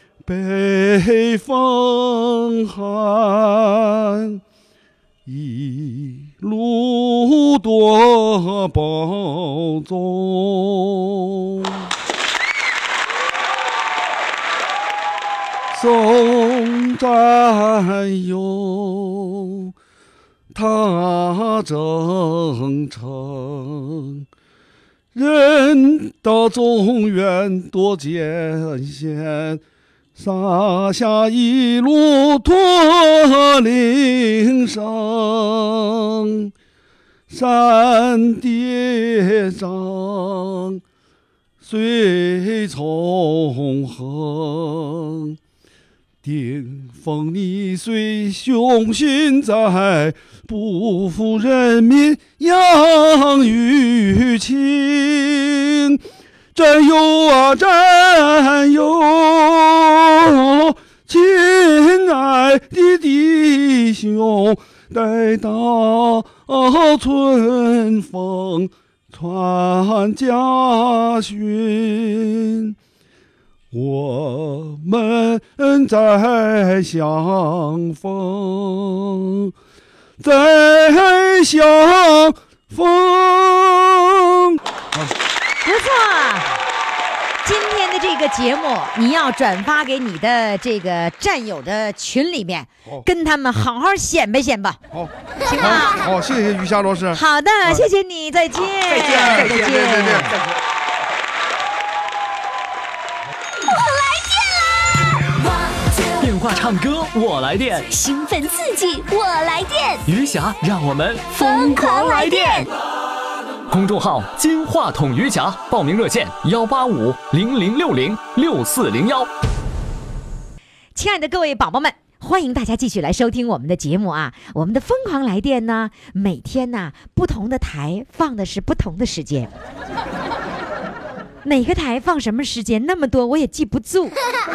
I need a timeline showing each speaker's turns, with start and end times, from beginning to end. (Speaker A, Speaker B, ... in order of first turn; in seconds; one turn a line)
Speaker A: 0.2-4.4
Speaker A: 5.2-11.9
Speaker A: 15.7-19.7
Speaker A: 20.5-24.2
Speaker A: 25.1-29.6
Speaker A: 30.1-36.5
Speaker A: 37.3-40.8
Speaker A: 41.6-45.4
Speaker A: 46.2-56.0
Speaker A: 56.5-72.7
Speaker A: 73.7-79.5
Speaker A: 80.2-85.1
Speaker B: 85.6-86.5
Speaker B: 87.4-94.8
Speaker A: 94.9-97.9
Speaker B: 95.4-96.0
Speaker B: 97.1-100.4
Speaker A: 99.0-100.4
Speaker C: 103.6-106.2
Speaker D: 106.2-107.9
Speaker C: 107.9-110.0
Speaker D: 110.0-112.7
Speaker C: 111.3-112.7
Speaker D: 113.7-119.3
Speaker B: 120.9-129.5
Speaker B: 131.4-134.2